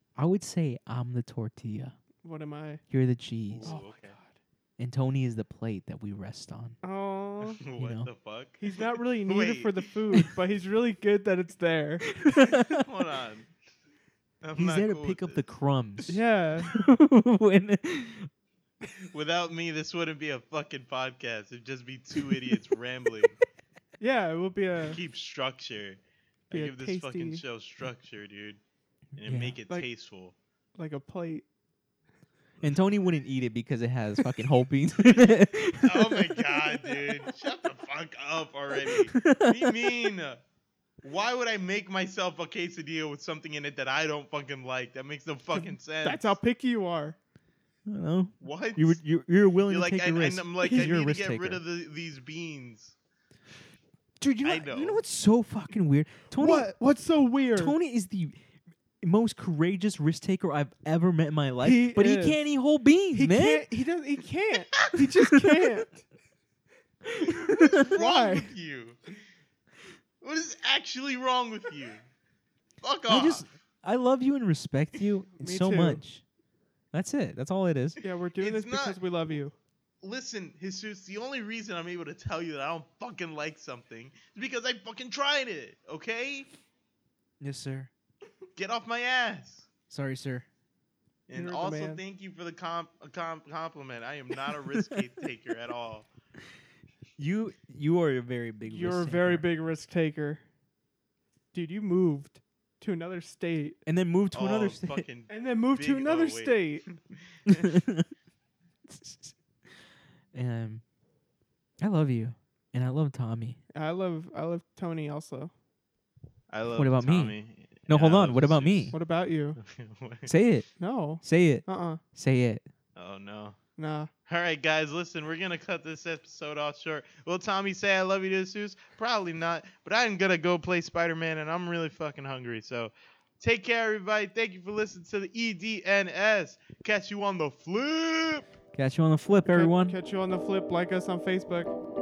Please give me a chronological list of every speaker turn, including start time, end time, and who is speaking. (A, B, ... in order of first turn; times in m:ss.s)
0:00.2-0:02.0 A
0:02.2-0:02.8 B
0:02.9-0:03.8 A
0:03.5-0:04.2 C
0:03.6-0:04.4 B
0:04.8-0:06.8 A
0:06.8-0:07.6 B
0:07.6-0:08.7 C
0:07.8-0:08.1 A
0:08.6-0:12.1 B
0:09.3-0:09.8 C
0:12.1-0:12.9 A
0:12.5-0:13.5 C
0:14.4-0:15.4 C
0:14.6-0:18.3 A
0:16.1-0:16.8 B
0:19.1-0:23.4 C
0:24.0-0:25.0 B
0:24.9-0:28.6 C
0:26.5-0:27.4 B
0:29.2-0:30.4 C
0:29.2-0:29.6 A
0:30.8-0:31.5 B
0:32.6-0:36.4 A
0:35.8-0:40.4 C
0:38.8-0:39.9 A
0:41.0-0:46.4 C
0:45.5-0:47.2 B
0:47.9-0:51.6 A
0:48.4-0:49.0 C
0:49.7-0:53.0 C
0:54.2-0:56.7 A
0:54.4-0:55.0 C
0:56.4-0:57.8 B
0:57.6-0:58.4 A
0:59.0-1:03.6 A
1:01.6-1:02.4 B
1:03.1-1:06.0 B
1:05.3-1:05.7 A
1:07.2-1:08.5 B
1:07.2-1:07.8 A
1:07.5-1:09.0 C
1:10.2-1:12.0 C
1:12.8-1:13.5 C
1:13.1-1:16.2 A
1:15.4-1:16.0 B
1:16.9-1:18.0 A
1:18.0-1:19.6 B
1:18.4-1:19.0 C
1:20.0-1:26.5 C
1:27.4-1:27.9 A
1:28.6-1:29.7 C
1:29.9-1:30.5 A
1:31.3-1:36.1 C
1:31.3-1:32.0 B
1:34.7-1:35.1 A
1:37.2-1:39.4 A
1:38.7-1:40.4 B
1:41.5-1:43.8 B
1:43.8-1:45.0 A
1:44.3-1:47.7 C
1:45.3-1:46.8 B
1:47.5-1:48.1 A
1:48.9-1:49.4 A
1:50.3-1:50.8 A
1:51.8-1:53.6 A
1:53.7-1:55.5 B
1:56.5-1:59.0 C
1:56.8-1:57.4 A
1:57.9-1:59.0 A
1:58.9-1:59.6 B
1:59.6-2:00.3 C
2:00.3-2:00.7 A
2:00.8-2:02.0 B
2:01.2-2:02.6 A
2:03.0-2:03.6 C
2:03.8-2:04.1 B
2:04.3-2:18.5 C
2:18.7-2:20.0 A
2:19.5-2:21.8 B